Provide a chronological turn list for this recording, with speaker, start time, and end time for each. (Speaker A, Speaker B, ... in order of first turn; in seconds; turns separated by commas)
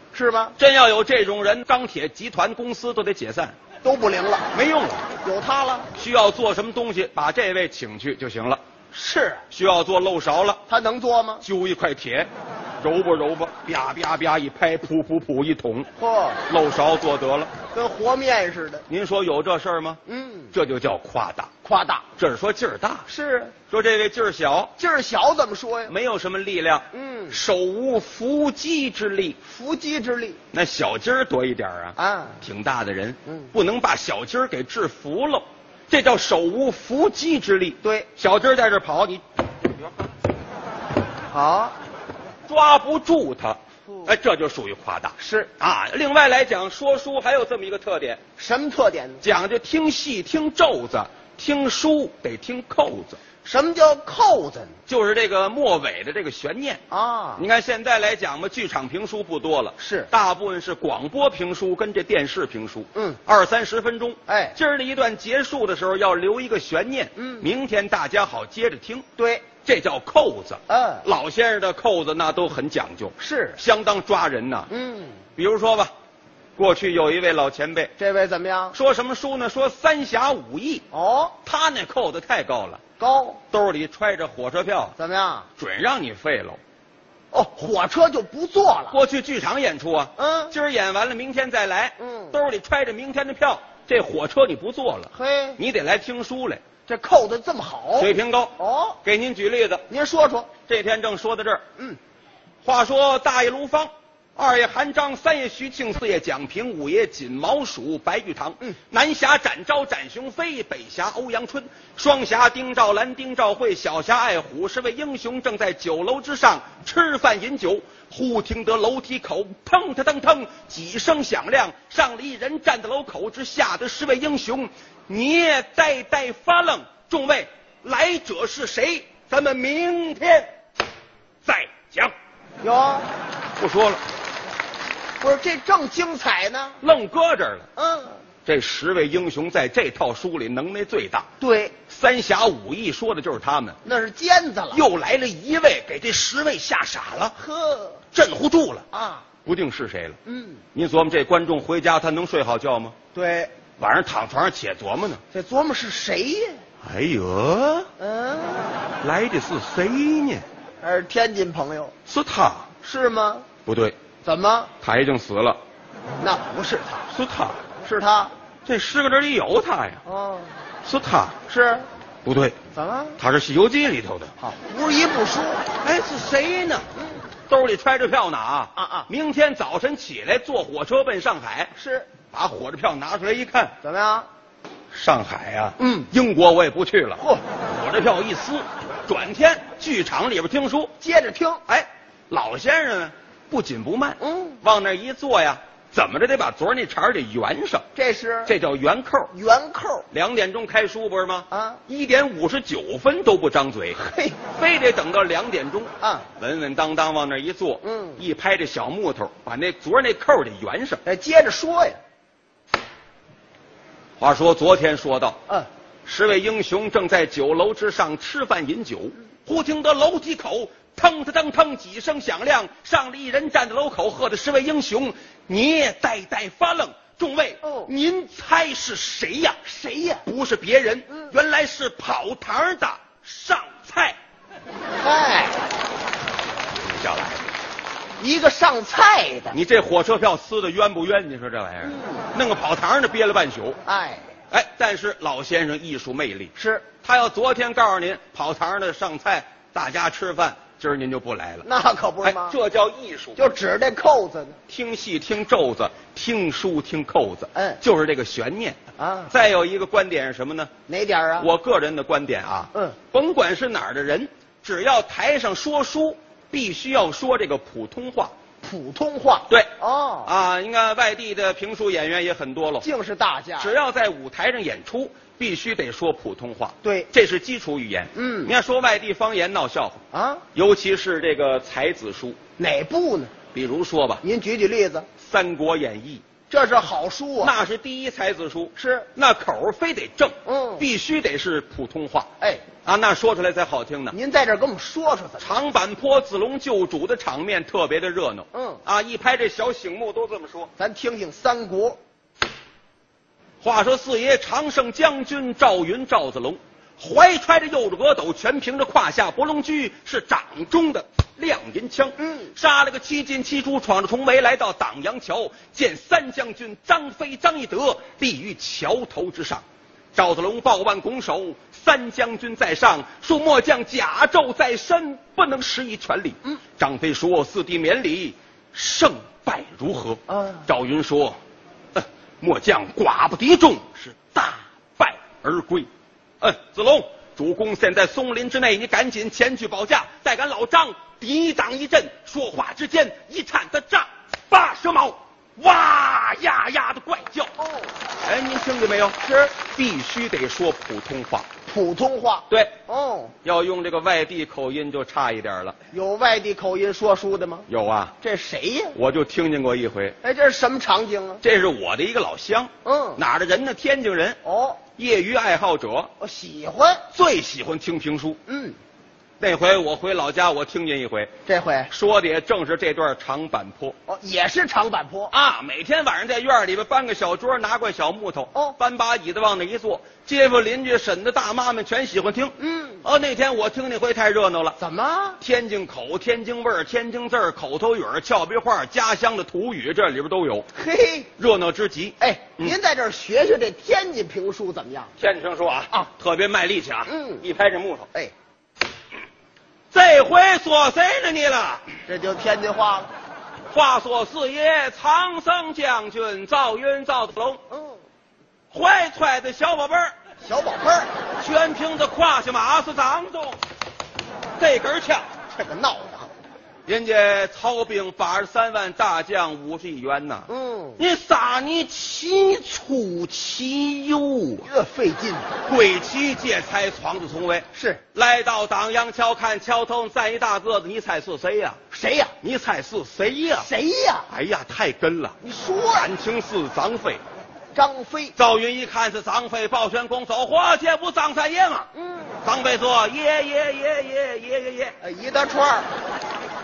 Speaker A: 0.1-0.6, Speaker B: 0.6-3.5, Speaker A: 3.8-4.5, Speaker B: 4.5-5.1, Speaker A: 5.2-5.9, Speaker B: 5.9-8.6, Speaker A: 8.9-9.4, Speaker B: 9.5-10.6, Speaker A: 10.7-11.4, Speaker B: 11.4-12.3, Speaker B: 12.8-15.9, Speaker A: 16.0-16.4, Speaker B: 16.5-17.5, Speaker A: 17.7-18.8, Speaker B: 18.9-20.0, Speaker A: 20.1-20.5, Speaker B: 20.5-21.5, Speaker A: 21.6-22.1, Speaker B: 22.2-23.1, Speaker A: 23.1-23.6, Speaker B: 23.7-24.7, Speaker A: 24.8-25.9, Speaker B: 25.9-29.4, Speaker A: 26.9-27.4, Speaker A: 29.4-30.4, Speaker B: 30.5-39.2, Speaker A: 32.0-32.4, Speaker A: 37.8-38.1, Speaker A: 41.3-41.8, Speaker B: 42.5-48.2, Speaker A: 45.2-45.5, Speaker A: 48.4-49.2, Speaker B: 49.2-53.2, Speaker A: 53.4-54.8, Speaker B: 54.9-56.8, Speaker A: 56.9-57.5, Speaker B: 57.4-69.1, Speaker A: 59.8-60.1, Speaker A: 62.9-63.2, Speaker A: 64.3-64.6, Speaker A: 67.2-67.5, Speaker A: 69.2-69.5, Speaker B: 69.6-74.7, Speaker A: 70.7-71.0, Speaker A: 73.2-73.6, Speaker A: 74.7-75.2, Speaker B: 75.4-75.9, Speaker B: 76.6-77.9, Speaker A: 78.0-78.8, Speaker B: 78.7-80.9, Speaker A: 80.9-81.4, Speaker B: 81.4-82.8, Speaker A: 83.0-83.4, Speaker B: 83.5-84.9, Speaker A: 85.0-85.5, Speaker B: 85.6-86.6, Speaker A: 87.3-89.0, Speaker B: 88.9-96.6, Speaker A: 90.2-90.6, Speaker A: 92.0-92.4, Speaker A: 95.1-95.6, Speaker A: 96.9-99.0, Speaker B: 98.0-99.9, Speaker A: 99.9-100.5, Speaker B: 100.6-101.6, Speaker B: 102.6-130.5, Speaker B: 131.4-132.1, Speaker A: 132.6-133.1, Speaker B: 133.6-134.0, Speaker A: 135.2-136.8, Speaker B: 136.8-137.7, Speaker A: 137.8-138.2, Speaker B: 138.4-141.3, Speaker A: 141.4-141.8, Speaker B: 141.9-143.8, Speaker A: 143.8-144.9, Speaker B: 144.7-147.4, Speaker A: 147.4-148.0, Speaker B: 148.1-148.9, Speaker A: 148.9-149.2, Speaker B: 149.4-150.2, Speaker A: 150.2-150.6, Speaker B: 150.7-152.9, Speaker A: 153.1-153.5, Speaker B: 153.8-155.2, Speaker A: 155.3-156.6, Speaker B: 156.8-157.9, Speaker A: 158.0-158.8, Speaker B: 159.0-160.4, Speaker A: 160.8-161.9, Speaker B: 162.1-162.7, Speaker A: 162.8-163.5, Speaker B: 163.7-164.0, Speaker A: 164.2-164.7, Speaker B: 164.8-165.6, Speaker A: 166.2-167.1, Speaker B: 167.1-167.6, Speaker A: 167.8-168.3, Speaker B: 168.7-170.0, Speaker A: 170.1-170.6, Speaker B: 170.8-171.4, Speaker A: 171.5-171.9, Speaker B: 172.2-172.6, Speaker A: 172.7-173.2, Speaker B: 173.2-174.3, Speaker A: 174.4-175.6, Speaker B: 175.8-176.9, Speaker A: 176.9-177.2, Speaker B: 177.5-181.7, Speaker A: 178.8-179.1, Speaker A: 181.8-182.1, Speaker B: 182.3-183.8, Speaker A: 183.8-184.3, Speaker B: 184.9-190.9, Speaker A: 185.8-186.1, Speaker A: 187.2-187.4, Speaker A: 191.0-191.6, Speaker B: 191.7-197.9, Speaker A: 194.2-194.6, Speaker A: 197.9-198.5, Speaker B: 198.4-199.3, Speaker A: 199.3-200.1, Speaker B: 200.1-204.0, Speaker A: 201.5-201.8, Speaker A: 203.9-204.4, Speaker B: 204.5-211.0, Speaker A: 206.0-206.3, Speaker A: 207.8-208.2, Speaker A: 211.1-212.0, Speaker B: 214.2-215.4, Speaker B: 216.1-229.6, Speaker A: 227.6-227.9, Speaker A: 229.6-230.2, Speaker B: 230.2-234.2, Speaker A: 235.0-235.6, Speaker B: 236.8-237.4, Speaker A: 238.2-239.6, Speaker B: 239.5-243.8, Speaker A: 241.8-242.2, Speaker A: 243.8-244.3, Speaker B: 244.5-251.7, Speaker A: 246.6-246.9, Speaker A: 251.6-252.6, Speaker B: 252.2-253.5, Speaker A: 253.4-254.6, Speaker B: 254.7-258.8, Speaker A: 257.5-257.8, Speaker A: 259.0-259.3, Speaker B: 259.3-260.7, Speaker A: 260.9-261.5, Speaker B: 261.4-268.3, Speaker A: 268.6-270.3, Speaker B: 270.2-272.9, Speaker A: 272.8-273.8, Speaker B: 273.6-280.0, Speaker A: 276.8-277.1, Speaker A: 278.1-278.5, Speaker A: 280.1-280.4, Speaker B: 280.5-282.4, Speaker A: 282.6-283.3, Speaker B: 283.5-284.2, Speaker A: 284.2-285.1, Speaker B: 285.2-286.2, Speaker A: 286.5-287.5, Speaker B: 287.4-294.1, Speaker A: 288.8-289.1, Speaker A: 290.5-290.9, Speaker A: 292.4-292.6, Speaker A: 294.1-295.6, Speaker B: 295.4-300.7, Speaker A: 298.5-298.8, Speaker A: 300.8-302.0, Speaker B: 303.6-319.6, Speaker A: 312.2-312.5, Speaker B: 320.1-331.4, Speaker A: 330.3-330.6, Speaker B: 331.9-335.9, Speaker B: 336.4-347.5, Speaker A: 347.6-347.9, Speaker B: 348.2-351.5, Speaker A: 349.2-349.6, Speaker A: 351.7-353.3, Speaker B: 352.5-352.7, Speaker B: 353.4-355.8, Speaker A: 355.9-357.7, Speaker B: 357.7-358.1, Speaker A: 358.2-359.0, Speaker B: 358.9-360.1, Speaker A: 360.2-361.4, Speaker B: 361.4-364.4, Speaker A: 362.9-363.2, Speaker A: 364.4-364.8, Speaker B: 365.0-366.1, Speaker A: 366.2-367.0, Speaker B: 367.1-368.4, Speaker A: 368.5-368.8, Speaker B: 369.4-371.3, Speaker A: 371.5-371.9, Speaker B: 371.9-374.0, Speaker A: 374.1-375.3, Speaker B: 375.3-384.8, Speaker A: 382.6-383.0, Speaker A: 384.8-385.4, Speaker B: 385.4-390.7, Speaker A: 390.7-391.3, Speaker B: 391.4-392.8, Speaker A: 392.2-395.1, Speaker B: 395.2-398.1, Speaker A: 397.1-397.4, Speaker B: 399.9-401.9, Speaker A: 402.1-403.1, Speaker B: 403.7-407.6, Speaker A: 407.7-408.0, Speaker B: 408.7-410.1, Speaker A: 410.4-411.1, Speaker B: 411.4-413.6, Speaker B: 414.6-415.3, Speaker A: 415.5-416.3, Speaker B: 416.9-424.7, Speaker A: 420.5-421.0, Speaker A: 424.6-425.5, Speaker B: 425.6-431.8, Speaker A: 427.7-428.0, Speaker A: 431.9-432.3, Speaker B: 432.4-433.7, Speaker A: 433.6-434.3, Speaker B: 434.3-435.4, Speaker A: 435.4-436.1, Speaker B: 435.9-437.2, Speaker A: 437.7-438.3, Speaker B: 438.4-441.9, Speaker A: 441.9-442.4, Speaker B: 442.4-444.9, Speaker A: 445.0-445.9